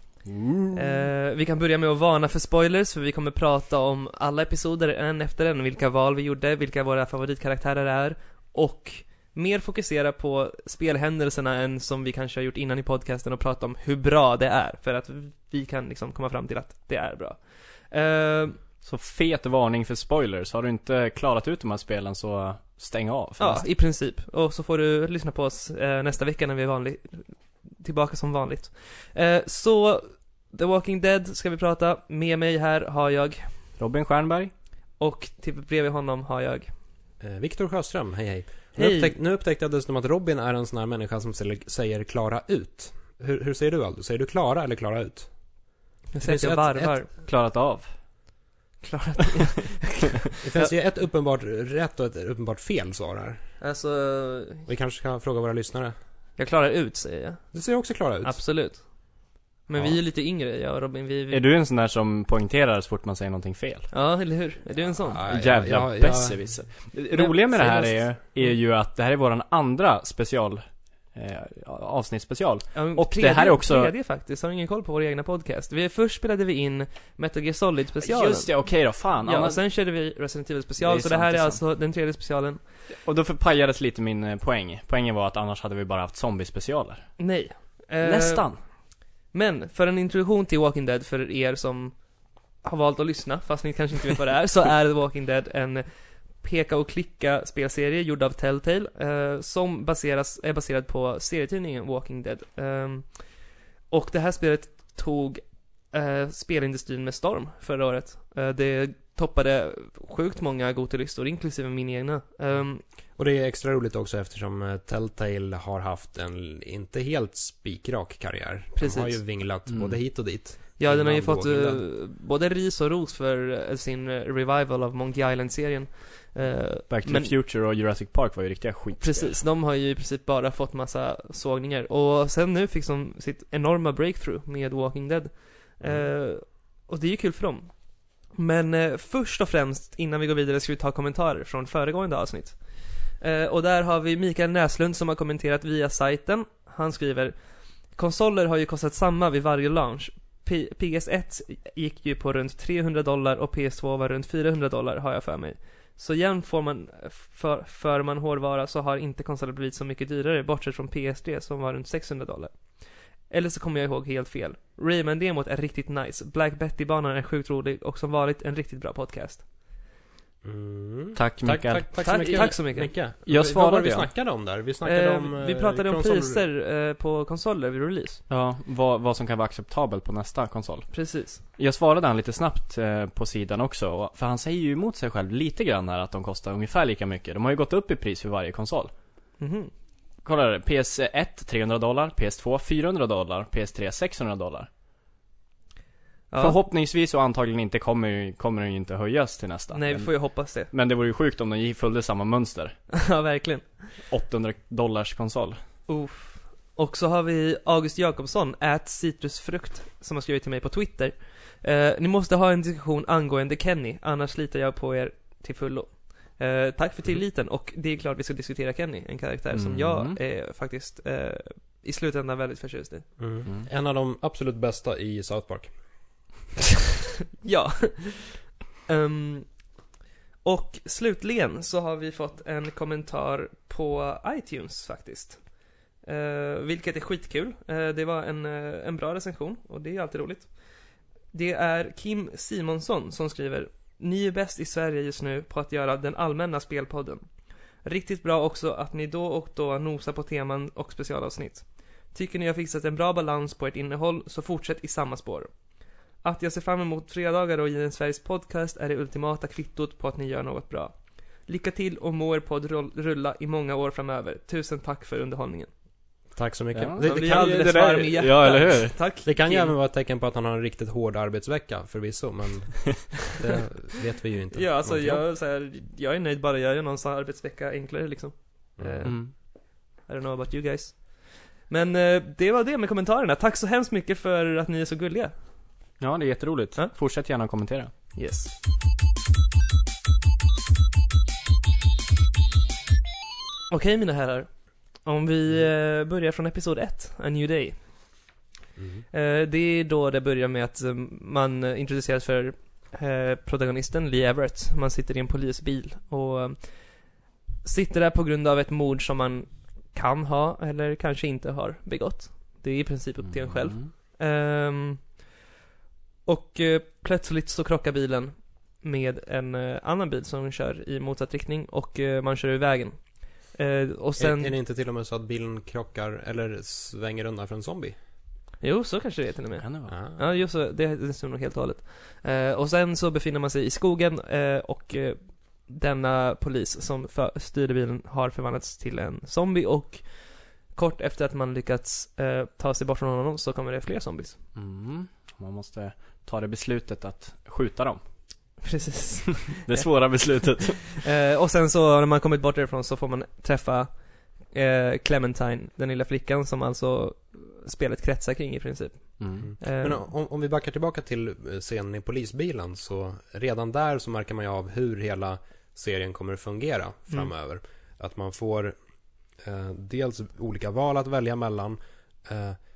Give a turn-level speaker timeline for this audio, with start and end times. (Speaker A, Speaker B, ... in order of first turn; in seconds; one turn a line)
Speaker A: 0.2-1.1
Speaker B: 0.7-18.6
Speaker A: 18.8-23.7
Speaker B: 23.4-33.5
Speaker A: 33.8-34.5
Speaker B: 35.0-36.7
Speaker C: 37.2-45.3
Speaker B: 38.8-39.1
Speaker B: 46.1-47.1
Speaker C: 46.2-47.0
Speaker A: 47.1-47.9
Speaker B: 48.8-50.7
Speaker C: 50.4-53.4
Speaker B: 53.6-54.7
Speaker C: 54.7-55.9
Speaker B: 56.4-57.5
Speaker C: 57.5-58.5
Speaker B: 58.2-59.1
Speaker B: 59.7-61.4
Speaker A: 61.3-63.9
Speaker B: 63.9-65.2
Speaker C: 65.0-66.7
Speaker A: 65.3-73.9
Speaker B: 67.1-68.5
Speaker B: 72.7-78.5
Speaker A: 78.0-79.6
Speaker B: 79.2-82.6
Speaker A: 80.8-81.6
Speaker A: 83.0-87.1
Speaker B: 87.2-88.5
Speaker A: 88.0-88.6
Speaker B: 89.3-92.0
Speaker B: 92.6-112.8
Speaker C: 113.2-121.8
Speaker B: 118.8-119.2
Speaker A: 119.7-120.0
Speaker B: 120.8-127.3
Speaker A: 126.9-129.4
Speaker B: 129.0-169.4
Speaker C: 170.4-176.4
Speaker A: 171.2-172.4
Speaker B: 172.0-172.9
Speaker A: 173.2-174.1
Speaker B: 174.8-178.2
Speaker A: 178.3-188.9
Speaker B: 180.9-181.4
Speaker B: 189.4-189.7
Speaker A: 190.2-194.7
Speaker B: 196.3-196.6
Speaker A: 196.4-202.7
Speaker B: 199.7-200.7
Speaker B: 202.9-203.7
Speaker A: 204.1-205.6
Speaker B: 205.9-223.1
Speaker A: 219.5-220.2
Speaker C: 223.2-225.7
Speaker B: 227.4-229.5
Speaker B: 230.4-235.4
Speaker B: 236.0-240.5
Speaker B: 241.3-247.2
Speaker B: 247.8-255.5
Speaker B: 256.2-260.9
Speaker B: 261.4-265.7
Speaker C: 266.4-267.7
Speaker A: 266.7-269.0
Speaker B: 267.0-269.7
Speaker C: 269.2-275.3
Speaker B: 274.5-285.3
Speaker C: 278.8-279.1
Speaker A: 279.0-279.3
Speaker A: 286.0-287.9
Speaker B: 288.1-288.5
Speaker B: 293.7-297.8
Speaker C: 298.8-299.1
Speaker B: 299.1-307.1
Speaker B: 307.6-315.1
Speaker A: 313.2-313.9
Speaker B: 316.2-324.6
Speaker C: 324.2-328.0
Speaker B: 328.6-344.4
Speaker A: 329.6-329.9
Speaker C: 329.9-330.2
Speaker A: 344.5-348.0
Speaker B: 348.6-360.0
Speaker A: 349.5-351.0
Speaker A: 359.2-359.5
Speaker C: 359.4-368.8
Speaker C: 369.4-372.6